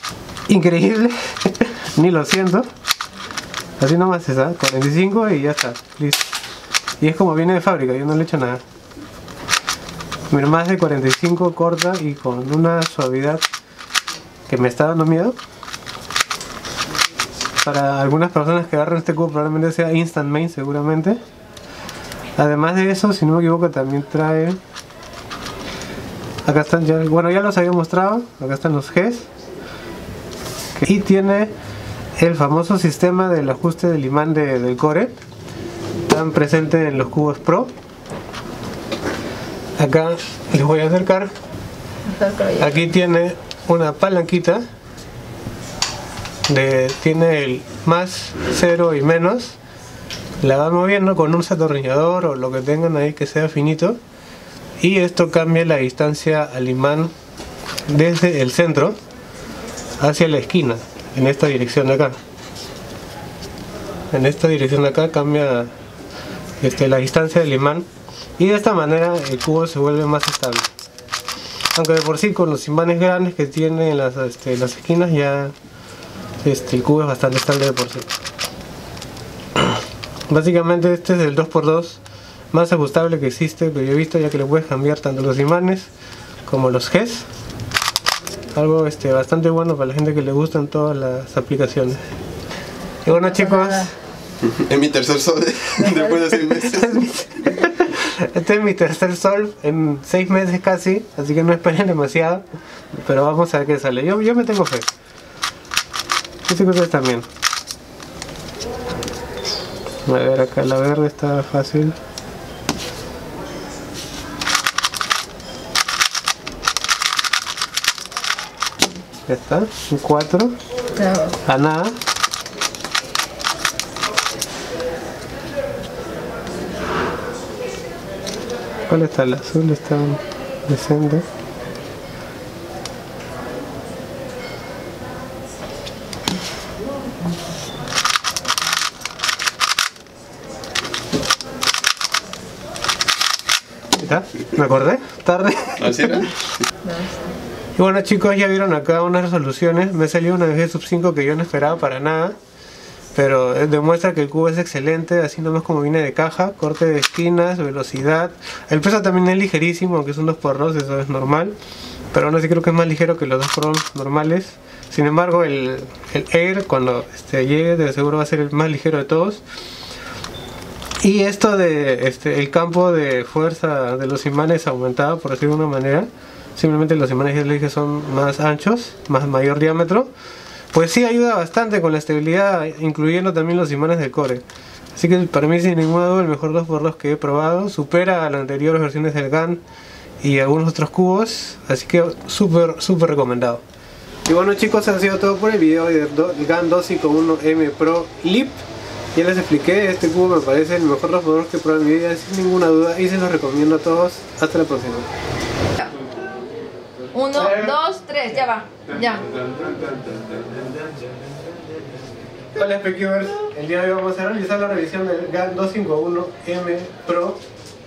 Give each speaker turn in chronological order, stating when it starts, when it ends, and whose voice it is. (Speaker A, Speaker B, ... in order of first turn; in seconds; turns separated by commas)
Speaker A: 0.5-2.7, Speaker A: 3.8-6.3, Speaker A: 7.0-8.6, Speaker A: 10.3-13.4, Speaker A: 14.5-15.4, Speaker A: 17.6-21.2, Speaker A: 22.4-24.6, Speaker A: 26.4-29.3, Speaker A: 30.8-31.5, Speaker A: 32.2-35.1, Speaker A: 36.0-37.7, Speaker A: 39.8-41.3, Speaker B: 42.1-42.5, Speaker A: 42.5-44.6, Speaker A: 46.5-49.6, Speaker A: 50.4-54.0, Speaker A: 54.8-57.1, Speaker A: 57.9-59.0, Speaker A: 60.0-62.2, Speaker A: 64.1-65.7, Speaker A: 66.6-67.9, Speaker A: 68.4-70.7, Speaker A: 71.7-75.5, Speaker A: 76.4-78.1, Speaker A: 80.3-85.9, Speaker A: 86.5-87.3, Speaker A: 88.5-92.0, Speaker A: 93.0-94.0, Speaker C: 94.4-97.0, Speaker A: 96.5-104.9, Speaker A: 106.5-107.3, Speaker A: 110.0-112.0, Speaker A: 119.2-120.6, Speaker B: 121.0-121.3, Speaker A: 121.3-122.0, Speaker A: 128.9-131.2, Speaker A: 143.9-146.3, Speaker C: 145.8-146.4, Speaker A: 147.8-152.3, Speaker A: 153.1-161.6, Speaker A: 162.1-169.4, Speaker A: 171.0-180.1, Speaker A: 180.7-184.4, Speaker A: 184.9-189.6, Speaker A: 190.2-193.6, Speaker A: 194.2-198.6, Speaker A: 199.1-205.1, Speaker B: 207.1-209.4, Speaker A: 207.3-207.7, Speaker A: 212.5-217.4